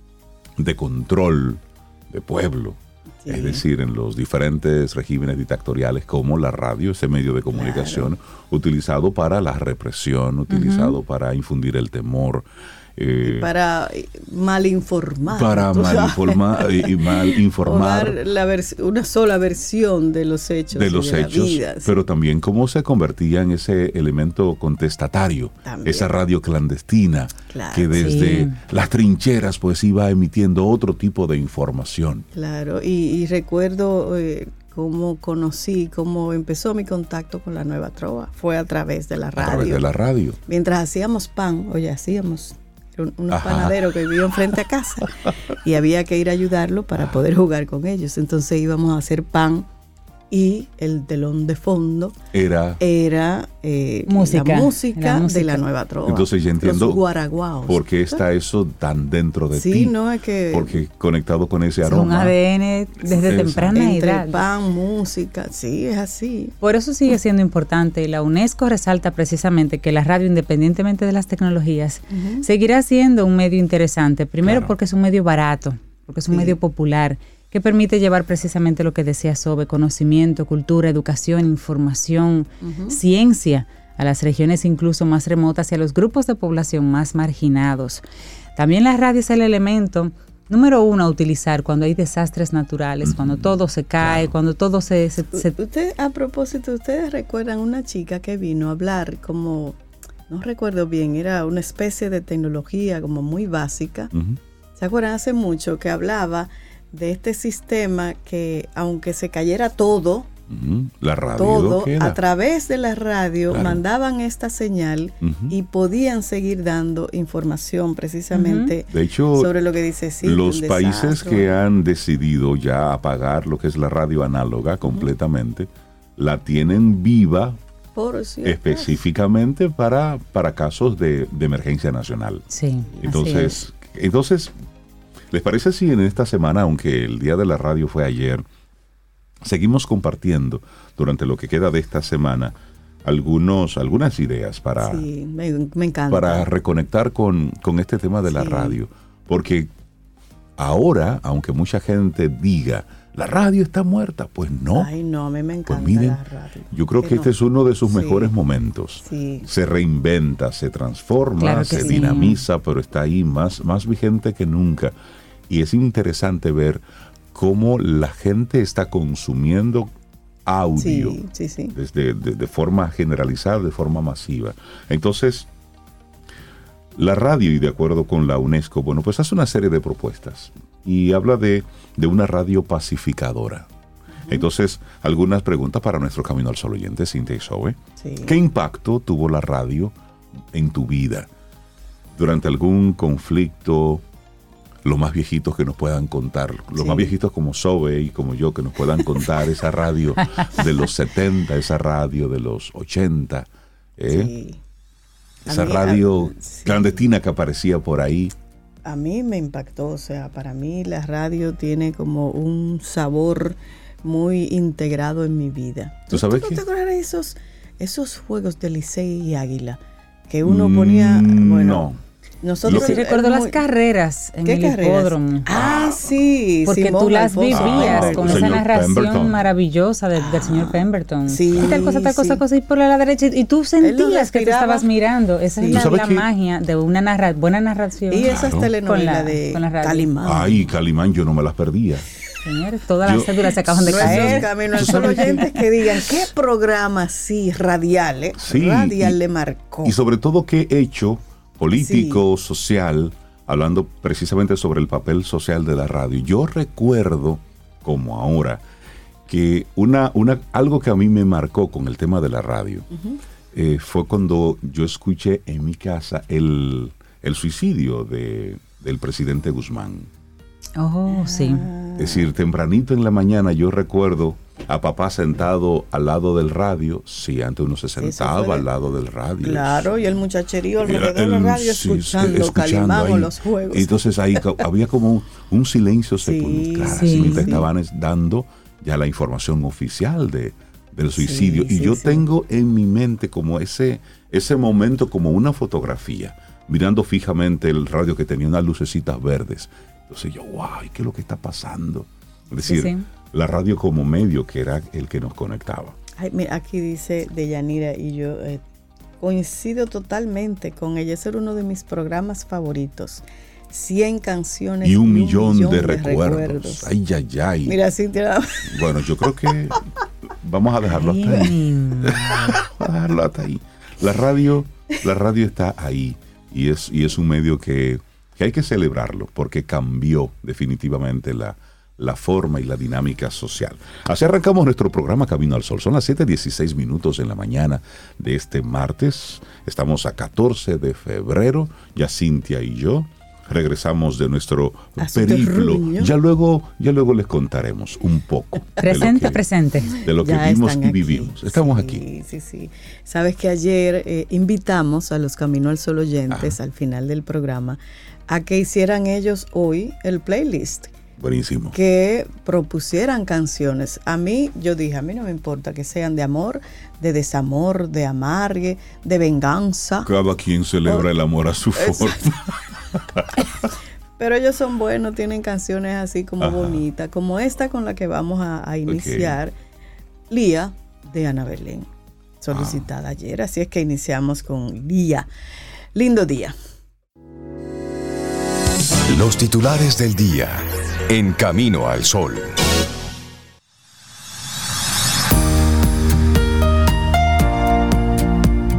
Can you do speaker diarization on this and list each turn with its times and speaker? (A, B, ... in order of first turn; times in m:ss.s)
0:00.6-0:13.5 A
0:03.2-0:03.6 B
0:07.5-0:08.1 B
0:10.5-0:11.0 C
0:13.2-0:21.9 B
0:15.3-0:18.2 A
0:20.7-0:32.3 A
0:25.7-0:26.1 B
0:27.5-0:28.2 B
0:27.9-0:28.6 C
0:32.3-0:39.8 B
0:39.4-0:40.4 A
0:40.5-0:49.7 B
0:43.3-0:44.0 A
0:47.0-0:47.2 A
0:50.3-0:52.2 B
0:52.3-0:52.8 A
0:52.8-0:58.2 B
0:54.1-0:55.6 C
0:56.0-0:57.0 A
0:57.7-1:00.0 A
0:59.5-1:00.8 B
1:00.5-1:02.4 A
1:01.8-1:04.4 C
1:03.1-1:06.5 B
1:03.2-1:03.8 A
1:06.6-1:28.0 C
1:12.1-1:12.4 B
1:14.4-1:14.7 A
1:16.3-1:16.6 B
1:22.6-1:23.0 B
1:28.6-1:35.5 C
1:33.0-1:34.3 A
1:35.3-1:39.8 B
1:40.3-1:44.1 B
1:44.1-1:44.4 A
1:44.8-1:50.3 B
1:50.5-1:52.2 A
1:51.4-2:01.5 B
1:53.5-1:53.8 A
1:55.2-1:55.6 A
1:58.3-1:58.7 C
1:58.9-1:59.5 A
2:00.2-2:07.6 A
2:08.0-2:09.0 B
2:08.4-2:12.4 A
2:12.5-2:13.6 C
2:13.0-2:13.5 B
2:13.0-2:14.5 A
2:15.3-2:18.4 A
2:19.4-2:25.1 A
2:24.8-2:26.5 B
2:26.1-2:29.7 A
2:28.3-2:28.8 B
2:30.6-2:34.9 A
2:34.7-2:37.3 B
2:35.7-2:36.2 A
2:36.7-2:45.0 A
2:37.9-2:38.3 B
2:39.0-2:39.5 B
2:41.4-2:42.4 C
2:45.5-2:49.9 A
2:50.5-2:51.2 A
2:50.8-2:51.7 B
2:51.7-2:55.5 A
2:57.0-3:03.7 A
3:04.3-3:10.0 A
3:08.0-3:08.4 B
3:10.5-3:11.3 A
3:12.1-3:14.0 A
3:14.8-3:24.3 A
3:16.8-3:17.1 B
3:24.1-3:24.6 B
3:25.5-3:27.1 B
3:25.5-3:28.3 A
3:28.8-3:41.9 B
3:36.1-3:36.6 A
3:40.4-3:42.0 A
3:42.4-3:43.6 B
3:42.6-3:43.0 A
3:42.7-3:45.5 C
3:44.4-3:48.6 B
3:45.5-3:46.0 A
3:46.7-4:00.1 C
3:47.5-3:49.4 A
3:50.2-3:52.4 B
3:51.5-3:51.9 A
3:53.8-3:54.9 B
3:55.6-3:55.9 B
3:55.7-3:56.3 A
3:58.1-4:00.7 B
3:58.3-3:58.7 A
4:00.2-4:02.1 A
4:02.4-4:05.5 C
4:03.0-4:05.4 A
4:03.9-4:09.9 B
4:08.4-4:09.2 A
4:09.8-4:18.6 A
4:11.7-4:12.2 B
4:19.3-4:22.9 A
4:22.9-4:23.2 B
4:23.5-4:30.1 A
4:30.8-4:31.7 C
4:31.1-4:32.3 B
4:32.0-4:40.2 A
4:38.0-4:38.7 B
4:39.4-4:44.0 B
4:40.8-5:06.0 A
4:46.2-4:47.6 B
4:46.9-4:47.6 C
4:51.2-4:52.2 B
5:02.7-5:03.1 C
5:06.2-5:08.6 B
5:09.2-5:16.9 B
5:14.8-5:17.8 A
5:17.7-5:18.9 B
5:18.7-5:19.9 A
5:20.4-5:52.0 A
5:20.9-5:22.6 C
5:45.0-5:46.1 B
5:48.8-5:49.9 C
5:50.0-6:00.9 B
5:56.3-5:56.6 A
6:01.2-6:01.8 A
6:01.7-6:10.1 B
6:10.0-6:13.4 A
6:11.8-6:12.3 B
6:14.2-6:19.6 B
6:16.4-6:16.8 A
6:18.9-6:19.4 A
6:20.3-6:21.9 B
6:22.4-6:25.3 B
6:22.5-6:22.9 A
6:26.0-6:26.6 B
6:29.1-6:32.6 D